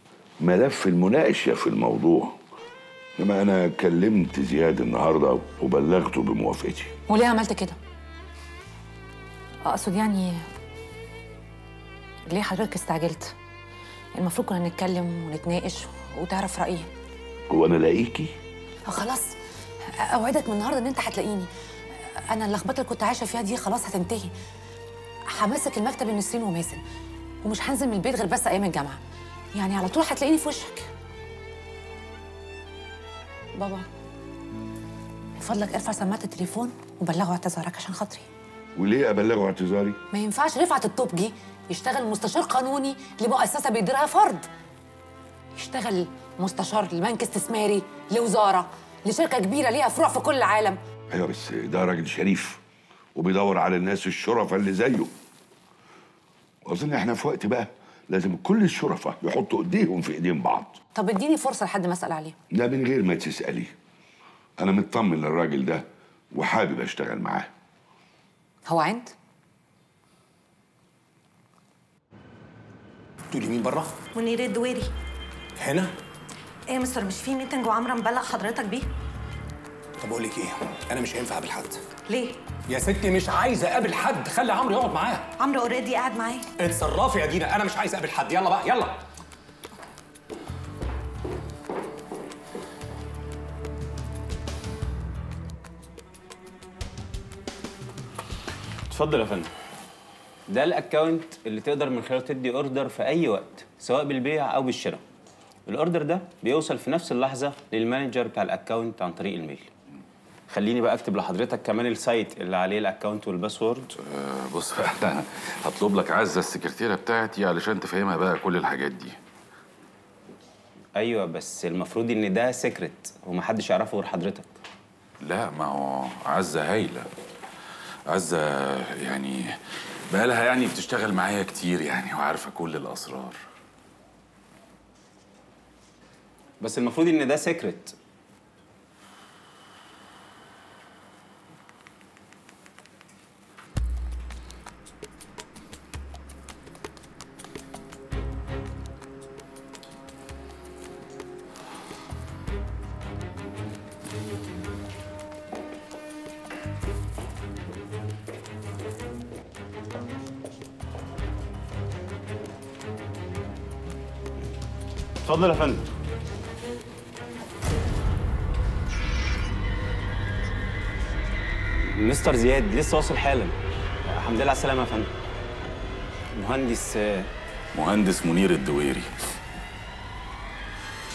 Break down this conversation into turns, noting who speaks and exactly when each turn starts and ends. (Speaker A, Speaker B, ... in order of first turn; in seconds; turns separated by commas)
Speaker A: 0.4-2.3, Speaker A: 3.2-6.9, Speaker B: 7.1-7.8, Speaker B: 9.6-10.4, Speaker B: 12.3-13.3, Speaker B: 14.1-16.9, Speaker A: 17.5-18.3, Speaker B: 18.9-19.3, Speaker B: 20.0-21.5, Speaker B: 22.3-24.3, Speaker B: 25.3-26.8, Speaker B: 27.4-29.0, Speaker B: 29.5-30.9, Speaker B: 33.5-33.9, Speaker B: 35.4-38.3, Speaker A: 38.8-40.0, Speaker B: 40.1-44.5, Speaker B: 45.5-50.8, Speaker A: 51.1-52.6, Speaker A: 53.1-55.1, Speaker A: 56.6-60.8, Speaker B: 60.9-62.4, Speaker A: 62.5-63.7, Speaker A: 64.6-67.5, Speaker B: 68.7-69.1, Speaker C: 73.3-73.9, Speaker D: 74.2-74.9, Speaker C: 75.6-75.9, Speaker D: 76.7-78.8, Speaker C: 80.0-81.8, Speaker D: 82.1-82.4, Speaker C: 82.7-85.3, Speaker D: 85.4-86.5, Speaker C: 86.6-89.0, Speaker E: 98.9-99.5, Speaker E: 100.5-105.0, Speaker E: 105.7-109.7, Speaker E: 110.5-113.9, Speaker F: 114.0-119.2, Speaker E: 121.0-124.5, Speaker F: 125.2-127.1, Speaker F: 128.1-129.6, Speaker F: 130.1-133.4, Speaker E: 136.6-137.9, Speaker E: 165.2-165.8, Speaker E: 171.8-173.5, Speaker E: 174.1-175.1, Speaker E: 176.3-177.3, Speaker F: 177.7-179.1